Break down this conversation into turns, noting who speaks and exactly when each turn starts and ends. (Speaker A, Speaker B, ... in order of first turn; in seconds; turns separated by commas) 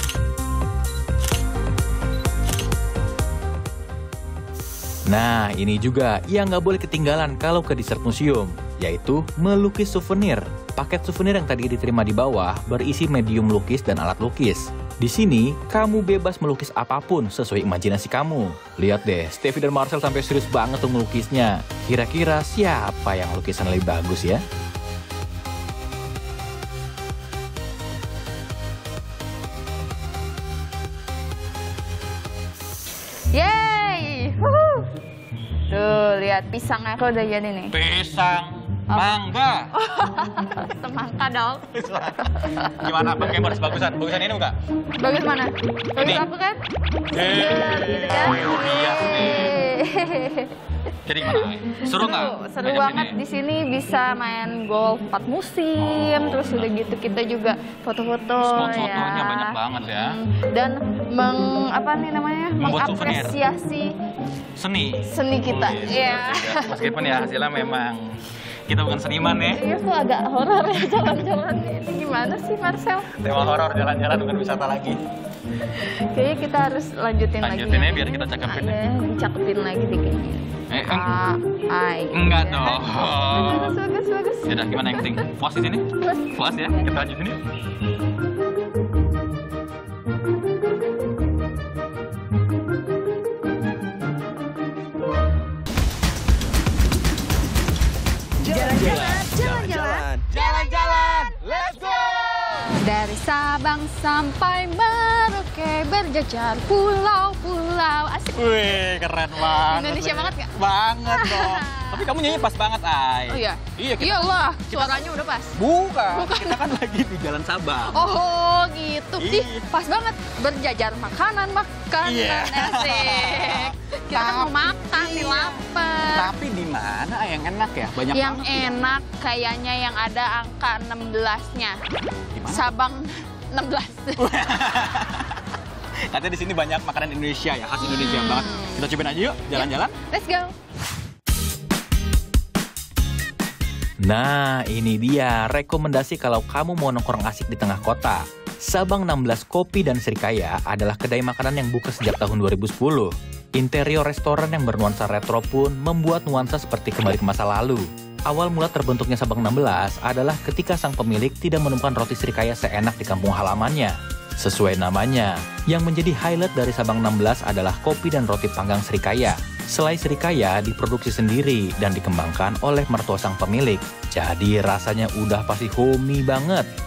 Speaker A: 5.1-24.4, Speaker B: 33.3-34.9, Speaker B: 35.7-37.8, Speaker C: 37.7-39.7, Speaker B: 38.9-39.2, Speaker B: 39.7-41.7, Speaker C: 41.7-44.6, Speaker B: 42.2-42.9, Speaker B: 45.0-46.6, Speaker C: 46.0-46.2, Speaker C: 47.1-49.6, Speaker B: 47.2-50.5, Speaker C: 51.1-53.2, Speaker B: 51.3-64.0, Speaker C: 55.8-56.7, Speaker C: 58.4-60.2, Speaker C: 62.6-63.4, Speaker C: 64.6-69.7, Speaker B: 65.0-66.8, Speaker B: 69.5-73.1, Speaker C: 73.2-75.0, Speaker B: 75.7-85.3, Speaker C: 77.4-78.8, Speaker C: 80.7-81.1, Speaker C: 82.1-83.8, Speaker C: 84.5-87.4, Speaker B: 86.0-86.9, Speaker B: 98.4-101.2, Speaker C: 98.6-102.8, Speaker B: 102.7-108.8, Speaker C: 108.4-118.1, Speaker B: 109.6-110.5, Speaker B: 111.1-112.3, Speaker B: 113.3-115.6, Speaker B: 116.1-116.7, Speaker B: 117.9-126.3, Speaker C: 119.2-119.7, Speaker C: 122.0-128.8, Speaker B: 128.1-131.8, Speaker C: 132.3-132.7, Speaker B: 132.5-134.3, Speaker C: 134.2-135.4, Speaker C: 136.1-139.9, Speaker B: 137.8-138.8, Speaker B: 139.5-140.5, Speaker A: 144.0-176.7